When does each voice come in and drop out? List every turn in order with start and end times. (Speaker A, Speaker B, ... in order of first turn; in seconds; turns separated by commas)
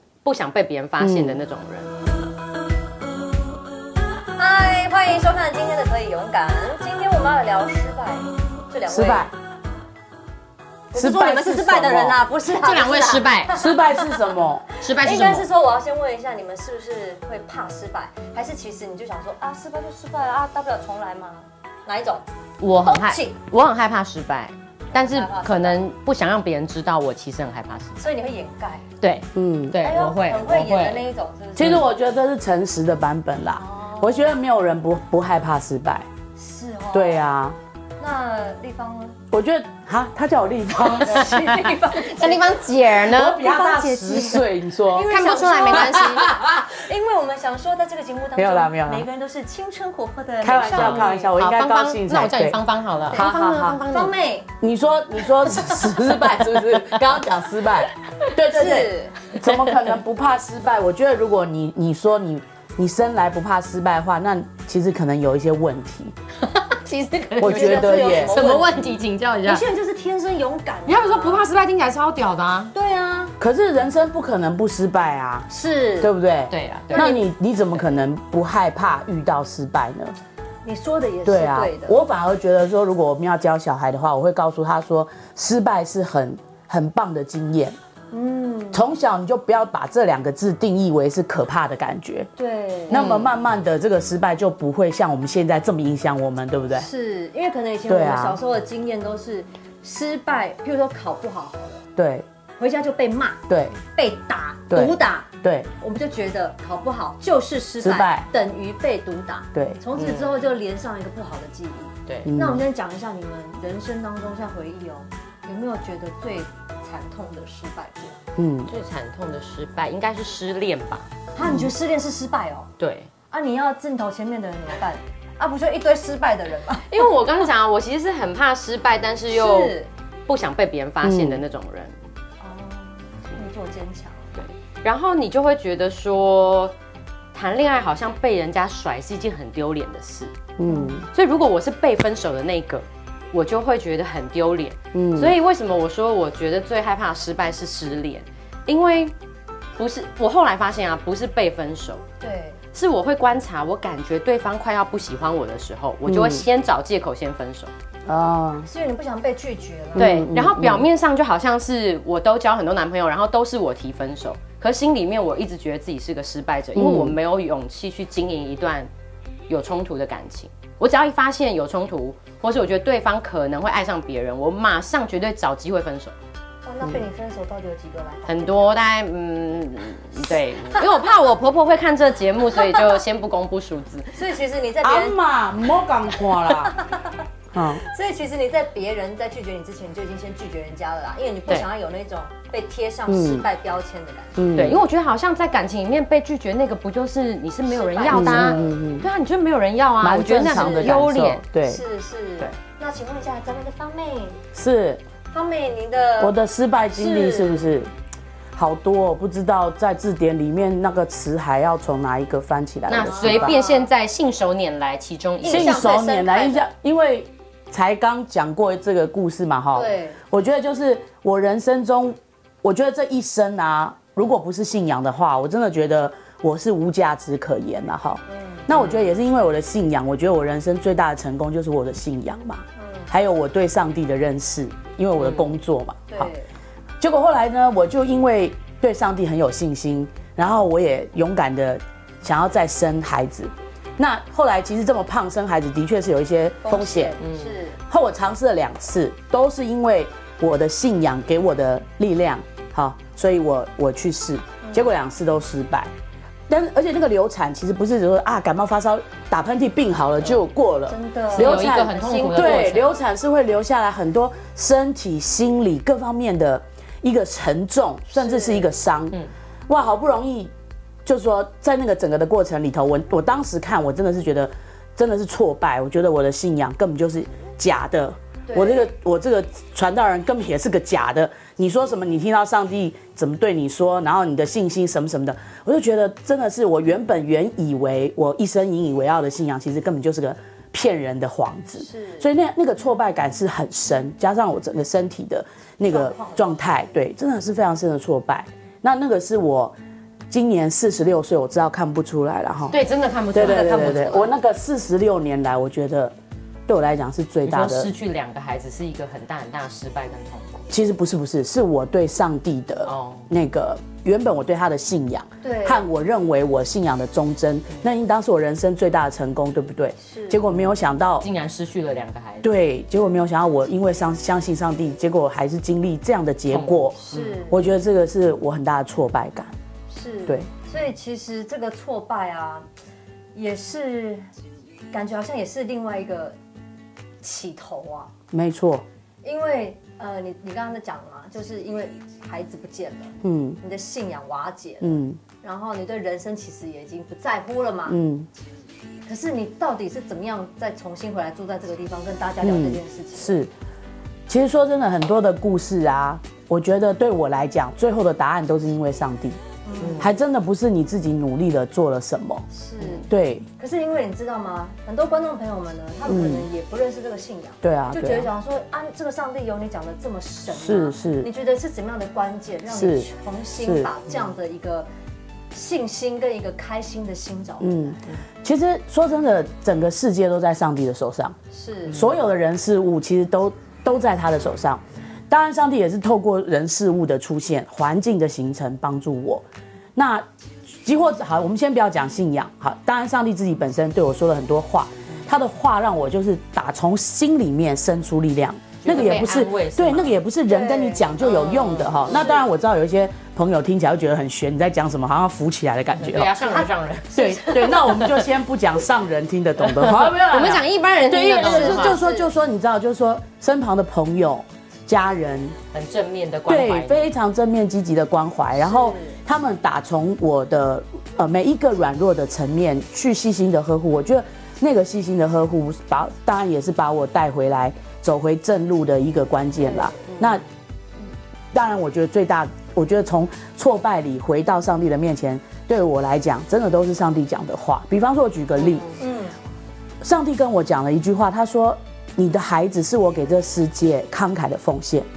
Speaker A: 0.2-1.9, Speaker B: 1.0-1.4, Speaker C: 4.4-9.3, Speaker B: 8.9-9.3, Speaker C: 10.9-22.2, Speaker B: 10.9-12.2, Speaker A: 12.4-13.5, Speaker B: 13.5-14.6, Speaker A: 14.8-15.5, Speaker A: 22.6-28.0, Speaker C: 22.8-23.4, Speaker C: 24.9-25.8, Speaker C: 28.0-28.8, Speaker A: 29.0-31.1, Speaker B: 29.3-29.8, Speaker C: 29.8-31.9, Speaker B: 31.6-36.1, Speaker C: 33.5-34.3, Speaker C: 36.4-37.3, Speaker B: 36.9-37.6, Speaker C: 38.0-39.2, Speaker B: 39.3-41.4, Speaker C: 40.8-51.3, Speaker A: 41.2-43.4, Speaker B: 43.0-45.1, Speaker A: 45.1-46.3, Speaker B: 45.7-46.5, Speaker B: 48.4-49.0, Speaker B: 50.4-52.6, Speaker A: 50.7-54.1, Speaker C: 53.1-54.5, Speaker B: 53.1-53.8, Speaker B: 54.6-66.1, Speaker C: 55.4-56.0, Speaker A: 56.1-57.0, Speaker C: 58.4-59.2, Speaker A: 66.4-69.6, Speaker B: 67.4-68.4, Speaker C: 67.4-68.8, Speaker C: 69.4-71.5, Speaker A: 70.8-72.7, Speaker C: 72.7-73.3, Speaker B: 73.4-75.5, Speaker C: 75.5-76.1, Speaker B: 76.0-80.1, Speaker A: 76.5-77.2, Speaker C: 76.9-77.2, Speaker C: 80.6-82.0, Speaker B: 81.2-87.8, Speaker C: 88.1-88.9, Speaker B: 88.7-92.3, Speaker C: 92.4-93.2, Speaker B: 92.9-96.9, Speaker A: 92.9-93.3, Speaker C: 96.7-101.8, Speaker B: 97.9-98.4, Speaker B: 102.0-102.2, Speaker C: 102.6-103.4, Speaker B: 103.5-103.8, Speaker C: 103.9-105.3, Speaker B: 104.7-105.7, Speaker C: 105.8-118.2, Speaker B: 107.8-108.3, Speaker B: 109.5-109.8, Speaker A: 110.0-110.4, Speaker B: 112.2-112.6, Speaker B: 118.4-118.7, Speaker A: 118.7-121.1, Speaker C: 121.3-122.7, Speaker B: 121.4-121.7, Speaker A: 122.8-123.1, Speaker C: 123.3-126.9, Speaker A: 126.9-129.7, Speaker C: 129.3-129.9, Speaker A: 130.3-132.1, Speaker B: 131.0-131.4, Speaker C: 132.4-134.4, Speaker A: 134.3-136.7, Speaker A: 137.3-140.3, Speaker B: 140.6-141.1, Speaker C: 140.6-141.0, Speaker A: 141.1-149.1, Speaker B: 144.9-145.4, Speaker A: 149.8-152.0, Speaker C: 152.2-152.6, Speaker A: 152.7-157.7, Speaker B: 156.0-156.4, Speaker B: 158.1-158.7, Speaker C: 158.6-160.2, Speaker B: 159.9-160.8, Speaker A: 160.0-168.9, Speaker B: 166.7-167.2, Speaker A: 169.5-176.1, Speaker C: 176.7-178.8, Speaker A: 178.3-184.3, Speaker C: 182.6-182.9, Speaker C: 184.1-185.2, Speaker B: 184.8-186.8, Speaker C: 186.1-194.4, Speaker B: 187.5-187.8, Speaker B: 193.1-193.4, Speaker B: 194.3-194.8, Speaker A: 194.5-201.4, Speaker C: 197.7-198.8, Speaker B: 198.1-199.1, Speaker B: 200.0-201.8, Speaker C: 200.4-204.4, Speaker B: 204.5-205.0, Speaker C: 205.3-206.4, Speaker B: 206.2-207.9, Speaker C: 206.9-207.7, Speaker B: 208.5-213.5, Speaker A: 212.9-215.8, Speaker C: 213.0-213.9, Speaker C: 215.4-216.7, Speaker B: 215.5-236.3, Speaker C: 219.7-220.2, Speaker C: 228.3-228.7, Speaker A: 228.7-229.0, Speaker C: 232.8-233.1, Speaker A: 235.2-235.5, Speaker C: 236.1-236.5, Speaker B: 237.0-247.2, Speaker C: 246.6-247.8, Speaker A: 247.2-247.6, Speaker B: 247.9-255.9, Speaker C: 254.6-254.9, Speaker B: 256.5-270.5, Speaker C: 260.9-262.9, Speaker A: 261.3-263.0, Speaker C: 268.1-268.7, Speaker B: 271.1-299.8, Speaker C: 278.4-278.9, Speaker C: 291.7-292.3, Speaker C: 295.8-296.6, Speaker B: 300.3-302.8, Speaker A: 302.7-304.3, Speaker B: 303.3-306.1, Speaker B: 306.7-307.9, Speaker A: 307.4-310.6, Speaker B: 310.7-321.2, Speaker A: 312.8-313.3, Speaker C: 315.4-315.9, Speaker C: 320.0-320.4, Speaker A: 321.2-322.5, Speaker B: 322.4-329.5, Speaker A: 326.5-327.4, Speaker C: 327.0-327.7, Speaker C: 329.9-332.7, Speaker C: 333.3-334.2, Speaker C: 334.9-336.4, Speaker C: 337.2-338.1, Speaker B: 338.3-338.8, Speaker C: 339.2-348.0, Speaker B: 343.2-343.6, Speaker B: 344.8-345.2, Speaker B: 347.9-348.3, Speaker C: 349.1-353.4, Speaker B: 352.4-353.5, Speaker B: 354.3-359.4, Speaker C: 359.6-360.2, Speaker A: 359.8-360.1, Speaker B: 360.0-362.4, Speaker C: 362.5-374.9, Speaker A: 362.8-363.1, Speaker B: 363.1-363.5, Speaker B: 366.1-366.5, Speaker B: 367.6-368.3, Speaker B: 370.5-371.3, Speaker B: 372.7-373.1, Speaker B: 373.6-373.9, Speaker C: 375.5-378.0, Speaker B: 377.6-381.4, Speaker C: 381.5-382.1, Speaker B: 381.9-415.6, Speaker A: 398.8-400.2, Speaker C: 400.5-402.4, Speaker A: 405.9-408.3, Speaker A: 409.6-412.0, Speaker C: 411.4-412.3, Speaker A: 415.7-417.1, Speaker B: 416.5-430.4, Speaker C: 418.5-419.2, Speaker C: 429.6-430.2, Speaker A: 430.1-430.4, Speaker B: 431.5-438.9, Speaker A: 438.6-438.9, Speaker C: 439.0-439.3, Speaker B: 440.0-445.1